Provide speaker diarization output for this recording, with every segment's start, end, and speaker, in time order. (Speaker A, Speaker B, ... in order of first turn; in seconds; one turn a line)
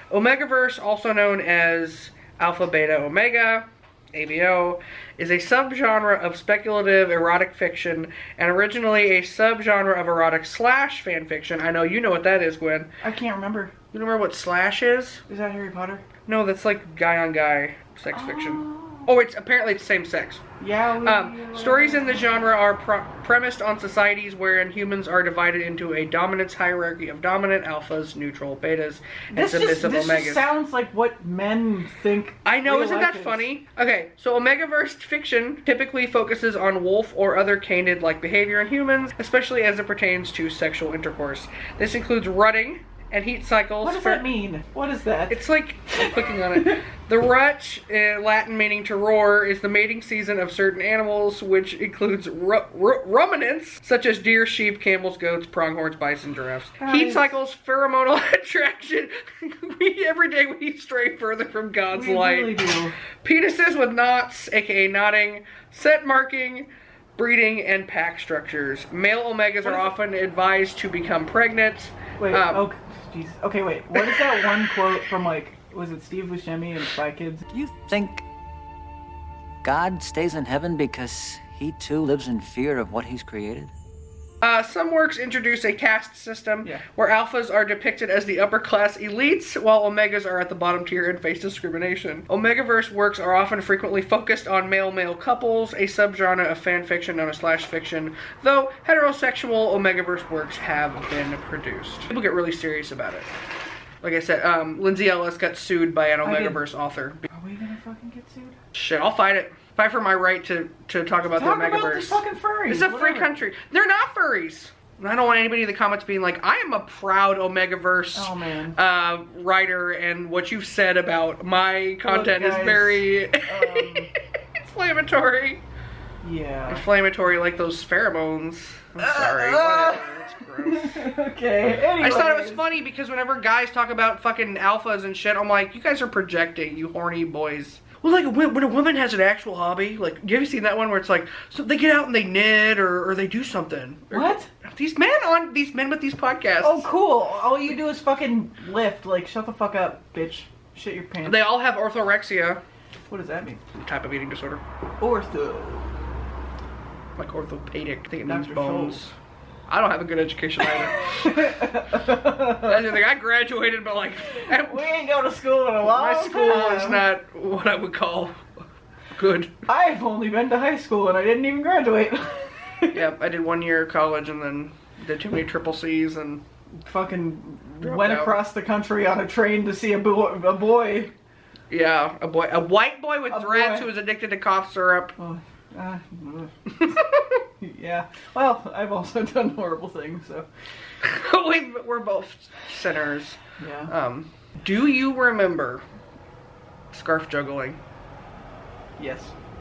Speaker A: 0.1-12.9
Speaker B: 13.0-13.7
Speaker A: 13.9-15.2
Speaker B: 15.3-16.0
Speaker A: 16.3-20.4
Speaker B: 18.1-19.1
Speaker B: 20.6-22.2
Speaker A: 21.0-30.5
Speaker B: 29.3-33.5
Speaker A: 32.5-44.3
Speaker B: 43.8-45.4
Speaker A: 45.3-72.7
Speaker B: 56.8-57.3
Speaker B: 61.9-63.0
Speaker B: 69.6-69.9
Speaker B: 72.2-77.5
Speaker C: 77.5-78.2
Speaker C: 79.6-83.7
Speaker A: 84.4-103.3
Speaker A: 104.0-107.2
Speaker B: 106.2-106.6
Speaker B: 107.3-108.6
Speaker A: 108.7-125.6
Speaker B: 111.3-113.3
Speaker B: 118.2-118.8
Speaker B: 122.1-124.1
Speaker B: 126.2-126.8
Speaker A: 126.7-131.1
Speaker B: 129.0-130.1
Speaker B: 130.6-132.6
Speaker A: 132.0-146.9
Speaker B: 144.1-144.5
Speaker B: 146.6-151.4
Speaker A: 151.2-152.6
Speaker B: 153.1-153.6
Speaker A: 153.7-154.6
Speaker B: 155.0-155.9
Speaker A: 157.2-159.1
Speaker B: 158.2-159.0
Speaker A: 159.7-161.3
Speaker B: 161.1-162.8
Speaker A: 162.6-164.9
Speaker B: 164.4-167.1
Speaker A: 165.8-168.4
Speaker A: 169.2-169.6
Speaker B: 169.7-173.0
Speaker A: 172.9-176.4
Speaker B: 176.8-181.1
Speaker A: 177.8-178.4
Speaker A: 181.7-185.2
Speaker B: 183.3-183.9
Speaker B: 185.2-186.9
Speaker A: 186.8-187.3
Speaker B: 187.6-190.5
Speaker A: 191.0-195.8
Speaker B: 193.6-193.9
Speaker A: 196.9-197.8
Speaker B: 199.0-199.3